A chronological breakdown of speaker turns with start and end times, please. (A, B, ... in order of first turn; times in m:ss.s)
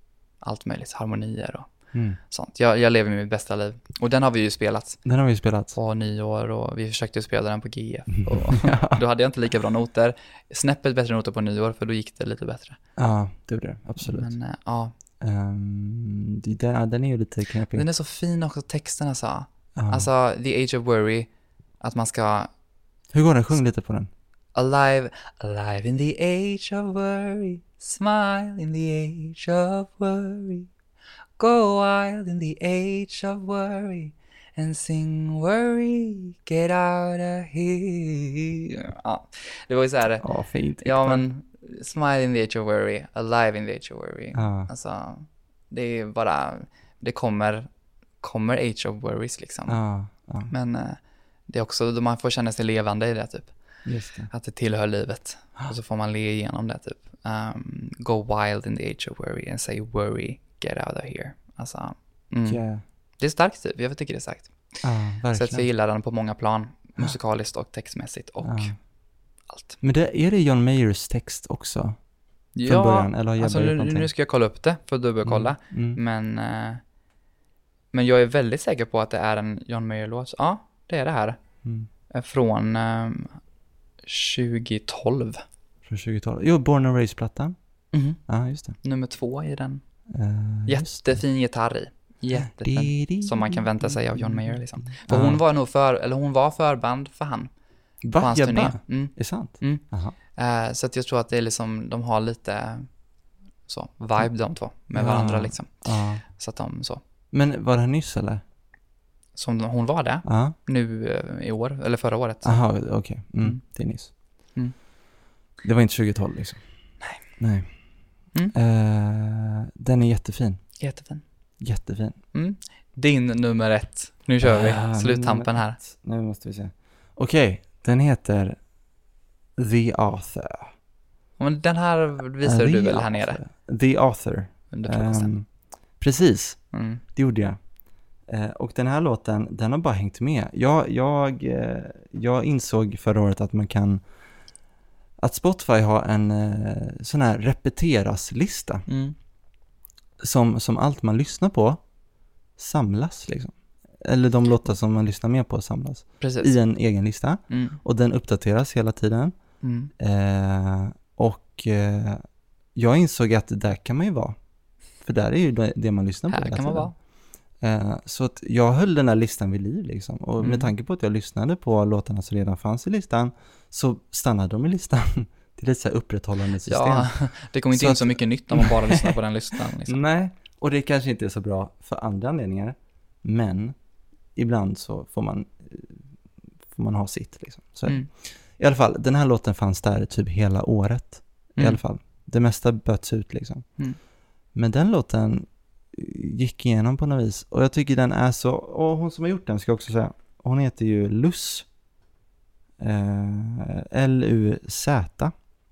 0:00.4-0:01.7 A
0:01.9-0:02.2 B
0:02.3-0:05.0 A
0:05.0-0:05.8 B
0:05.8-0:12.8 A
0:08.2-0:09.0 B
0:13.0-0:14.3 B
0:14.0-0:14.9 A
0:15.2-0:17.9 B
0:17.7-0:21.3 A
0:19.8-0:20.1 B
0:21.8-0:22.5 A
0:23.1-0:24.1 B
0:24.6-0:30.7 A
0:31.4-0:40.2 A
0:40.2-0:41.2 B
0:40.8-0:47.7 A
0:44.4-0:44.7 B
0:48.2-0:49.8 A
0:49.7-0:50.5 B
0:50.5-0:53.5 A
0:53.9-0:54.3 B
0:54.3-1:02.6 A
1:02.5-1:02.8 B
1:03.2-1:04.5 A
1:04.8-1:05.7 B
1:05.3-1:08.7 A
1:08.4-1:08.7 B
1:09.5-1:09.8 A
1:09.8-1:12.0 B
1:12.6-1:16.8 A
1:12.7-1:14.1 B
1:15.2-1:16.0 B
1:17.9-1:21.4 A
1:22.1-1:23.4 A
1:24.0-1:25.4 A
1:25.9-1:27.6 B
1:27.9-1:28.2 A
1:28.3-1:28.8 B
1:28.8-1:29.8 A
1:30.1-1:31.2 B
1:30.7-1:37.5 A
1:32.4-1:35.4 B
1:38.0-1:40.2 B
1:38.2-1:39.8 A
1:40.4-1:42.9 A
1:43.7-1:45.7 A
1:44.9-1:46.2 B
1:46.3-1:47.0 A
1:47.3-1:48.4 B
1:49.4-1:52.6 A
1:50.2-1:50.6 B
1:52.4-1:54.1 B
1:55.6-1:56.6 B
1:57.4-1:57.7 B
1:58.5-2:00.6 B
2:00.8-2:01.2 A
2:01.6-2:02.2 B
2:02.3-2:05.8 A
2:04.4-2:08.6 B
2:09.6-2:10.7 B
2:11.4-2:13.4 A
2:12.4-2:15.5 B
2:14.7-2:15.3 A
2:16.0-2:16.6 B
2:16.7-2:17.0 A
2:17.2-2:17.6 B
2:18.3-2:24.0 B
2:25.2-2:28.9 B
2:28.9-2:29.2 A
2:30.2-2:31.8 B
2:32.6-2:39.3 B
2:36.2-2:36.5 A
2:37.5-2:37.8 A
2:39.6-2:39.9 A
2:40.0-2:42.2 B
2:42.8-2:44.4 B
2:45.0-2:46.9 B
2:46.3-2:46.9 A
2:47.6-2:57.1 B
2:50.4-2:50.7 A
2:56.6-3:00.0 A
2:57.7-2:59.2 B
2:59.8-3:03.8 B
3:04.4-3:06.0 B
3:06.7-3:08.0 B
3:08.6-3:13.6 B
3:14.6-3:21.7 B
3:22.8-3:25.3 B